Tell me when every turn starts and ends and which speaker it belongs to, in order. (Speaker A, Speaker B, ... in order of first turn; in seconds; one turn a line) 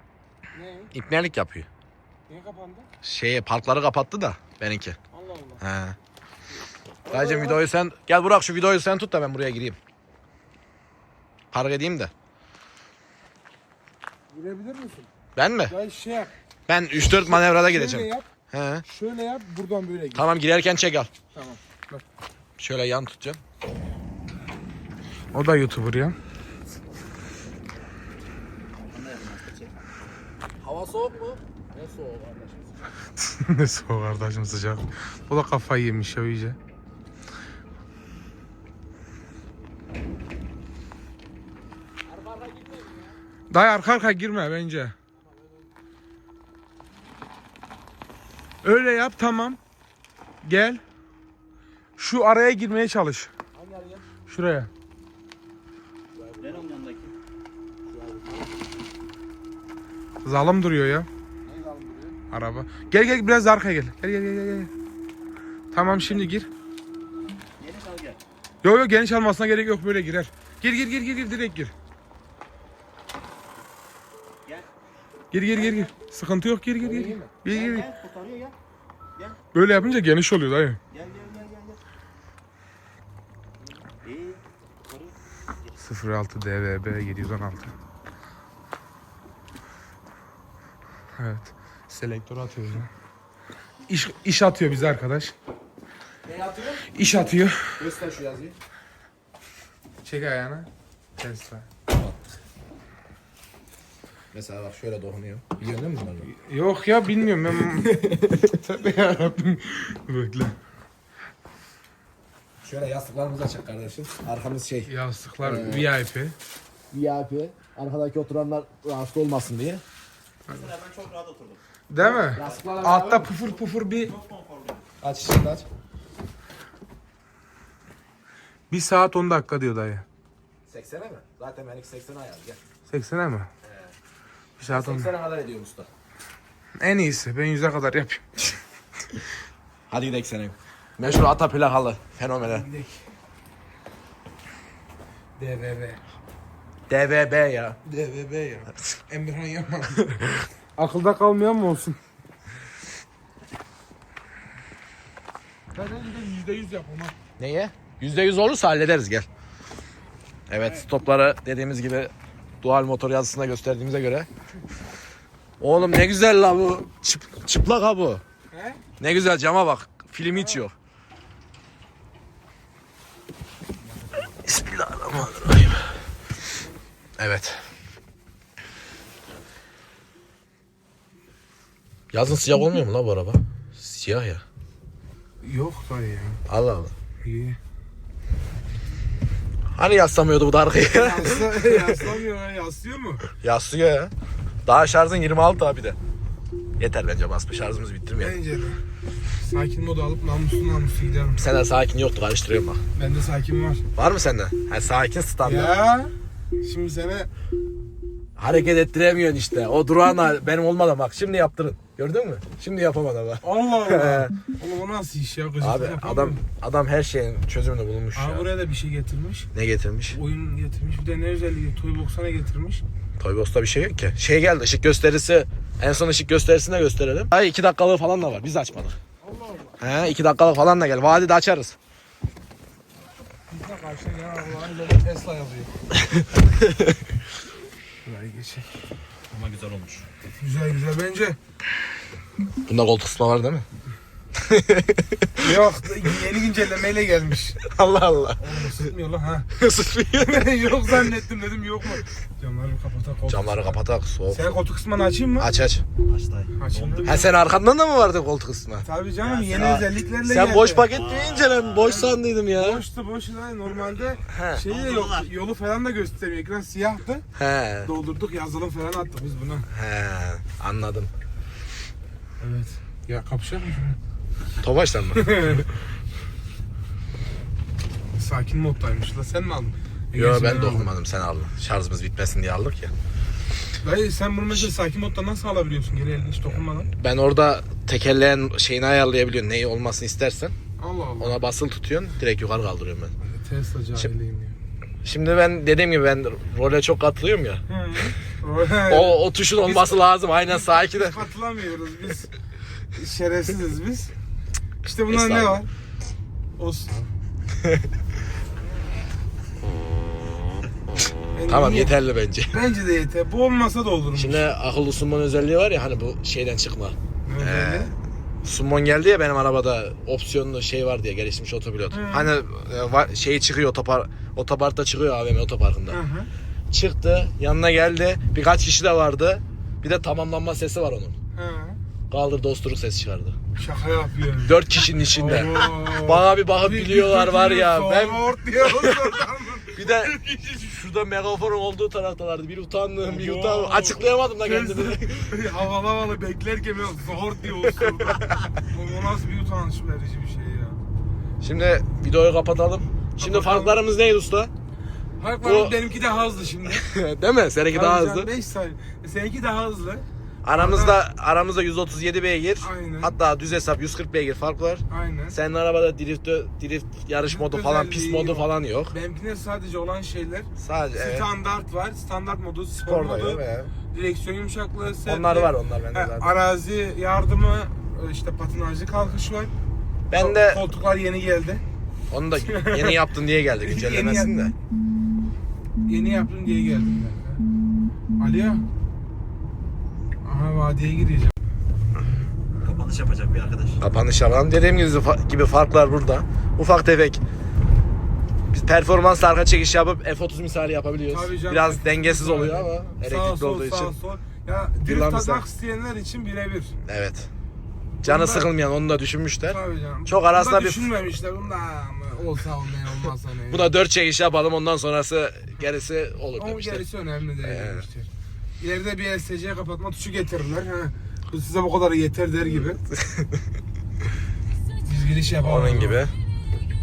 Speaker A: 0.5-0.9
Speaker B: 0.9-1.7
Speaker A: 2.3-2.9
Speaker B: 3.0-5.0
Speaker A: 5.1-5.6
Speaker B: 5.6-6.0
Speaker A: 7.1-7.6
Speaker B: 7.1-9.8
Speaker B: 11.5-12.1
Speaker A: 14.3-15.1
Speaker B: 15.4-15.8
Speaker A: 15.7-16.3
Speaker B: 16.7-18.9
Speaker A: 17.1-18.3
Speaker A: 18.9-20.3
Speaker B: 20.1-21.1
Speaker A: 21.3-22.0
Speaker B: 22.6-23.4
Speaker A: 25.3-26.2
Speaker C: 28.9-29.8
Speaker B: 30.6-32.9
Speaker A: 33.2-36.6
Speaker B: 42.1-43.1
Speaker A: 43.5-45.0
Speaker A: 48.6-49.6
Speaker A: 50.4-50.8
Speaker A: 52.0-53.3
Speaker B: 53.6-54.1
Speaker A: 54.3-54.7
Speaker B: 56.2-56.8
Speaker C: 56.4-57.1
Speaker B: 57.9-58.3
Speaker A: 60.2-61.1
Speaker B: 61.5-62.1
Speaker A: 62.2-64.7
Speaker A: 65.7-66.5
Speaker C: 67.6-68.2
Speaker A: 68.6-71.7
Speaker A: 75.3-77.9
Speaker B: 76.8-77.3
Speaker C: 77.4-78.5
Speaker A: 79.5-80.8
Speaker C: 80.9-81.8
Speaker C: 84.0-85.2
Speaker A: 85.8-87.7
Speaker A: 91.2-92.9
Speaker A: 93.9-95.3
Speaker B: 96.3-97.0
Speaker A: 96.9-97.8
Speaker B: 97.8-98.6
Speaker A: 100.0-101.7
Speaker B: 101.9-102.3
Speaker B: 104.3-106.3
Speaker A: 106.3-110.6
Speaker B: 107.8-108.5
Speaker B: 112.6-115.9
Speaker A: 114.9-116.3
Speaker B: 116.9-119.8
Speaker C: 120.5-121.6
Speaker A: 121.9-124.2
Speaker B: 122.0-123.3
Speaker C: 124.2-124.8
Speaker B: 125.0-125.7
Speaker A: 128.7-130.1
Speaker B: 130.7-132.6
Speaker A: 132.9-133.5
Speaker A: 134.6-135.1
Speaker B: 134.7-135.9
Speaker A: 136.8-138.5
Speaker B: 139.9-142.7
Speaker A: 142.5-143.0
Speaker A: 145.4-146.0
Speaker B: 146.9-147.8
Speaker A: 147.9-150.2
Speaker A: 150.8-152.0
Speaker A: 155.8-157.2
Speaker B: 157.4-159.3
Speaker B: 160.5-164.3
Speaker B: 165.6-168.2
Speaker A: 168.5-168.8
Speaker B: 169.0-170.8
Speaker A: 170.3-170.6
Speaker B: 174.3-175.9
Speaker B: 177.2-177.6
Speaker B: 182.1-184.4
Speaker A: 185.4-186.4
Speaker B: 186.5-186.9
Speaker A: 187.2-187.6
Speaker B: 189.8-192.1
Speaker A: 190.9-193.2
Speaker B: 193.4-194.1
Speaker B: 194.7-196.0
Speaker B: 196.8-198.4
Speaker A: 198.2-201.5
Speaker B: 201.4-202.8
Speaker A: 202.9-203.8
Speaker B: 203.9-205.8
Speaker A: 205.4-207.3
Speaker B: 208.4-214.3
Speaker A: 213.4-216.4
Speaker B: 215.6-218.5
Speaker A: 218.2-219.5
Speaker B: 219.5-220.2
Speaker A: 220.1-222.8
Speaker B: 223.2-229.0
Speaker A: 229.2-229.9
Speaker B: 229.8-231.8
Speaker A: 233.5-235.7
Speaker A: 238.1-238.7
Speaker B: 239.3-240.0
Speaker A: 240.4-241.4
Speaker B: 242.7-243.7
Speaker B: 244.4-245.5
Speaker A: 245.4-247.6
Speaker B: 247.6-248.9
Speaker A: 248.4-249.5
Speaker B: 249.5-251.1
Speaker A: 250.2-255.5
Speaker B: 253.3-254.6
Speaker B: 255.4-255.8
Speaker C: 256.1-257.2
Speaker A: 256.6-257.2
Speaker B: 257.0-258.9
Speaker A: 258.8-260.9
Speaker C: 259.3-259.7
Speaker B: 259.5-262.8
Speaker C: 260.9-262.1
Speaker A: 261.8-267.2
Speaker B: 264.3-264.6
Speaker C: 264.6-265.3
Speaker B: 267.4-267.9
Speaker A: 267.8-269.7
Speaker B: 269.7-271.1
Speaker A: 272.4-274.0
Speaker B: 274.6-275.6
Speaker A: 275.1-275.7
Speaker A: 278.2-280.9
Speaker B: 280.1-282.9
Speaker A: 283.8-286.9
Speaker B: 286.9-290.6
Speaker A: 290.8-291.4
Speaker B: 291.2-293.1
Speaker A: 293.2-294.6
Speaker B: 295.0-297.6
Speaker A: 297.7-302.3
Speaker B: 298.9-301.2
Speaker A: 302.9-304.1
Speaker A: 304.8-305.7
Speaker B: 305.1-305.6
Speaker A: 306.6-307.1
Speaker A: 311.4-312.0
Speaker B: 311.5-312.6
Speaker A: 312.5-314.5
Speaker B: 314.1-317.9
Speaker A: 317.2-317.9
Speaker B: 318.4-326.0
Speaker A: 321.9-322.3
Speaker A: 325.9-326.3
Speaker B: 326.7-331.1
Speaker A: 331.4-331.8
Speaker B: 332.1-333.4
Speaker A: 333.6-334.6
Speaker B: 334.4-345.4
Speaker A: 335.1-340.2
Speaker A: 343.0-350.8
Speaker B: 347.6-348.4
Speaker B: 351.4-354.5
Speaker A: 353.2-353.8
Speaker A: 355.2-356.9
Speaker B: 355.4-355.8
Speaker B: 356.7-358.3
Speaker A: 357.7-361.0
Speaker B: 360.4-368.9
Speaker A: 362.6-363.1
Speaker A: 364.9-365.4
Speaker A: 367.2-379.5
Speaker B: 370.6-371.3
Speaker B: 372.8-373.7
Speaker B: 375.1-376.3
Speaker B: 380.1-380.6
Speaker A: 380.1-381.6
Speaker B: 382.1-384.6
Speaker A: 382.4-383.0
Speaker A: 383.6-384.4
Speaker A: 385.9-387.4
Speaker A: 388.2-388.7
Speaker A: 390.2-391.4
Speaker C: 392.6-393.8
Speaker B: 393.8-397.2
Speaker B: 398.5-403.9
Speaker A: 401.1-406.8
Speaker B: 404.8-405.4
Speaker B: 406.9-407.3
Speaker A: 408.0-408.5
Speaker B: 408.0-410.9
Speaker A: 409.4-413.7
Speaker B: 413.5-416.9
Speaker A: 416.4-422.8
Speaker B: 417.4-417.9
Speaker B: 422.9-423.4
Speaker A: 424.9-426.0
Speaker B: 425.4-426.1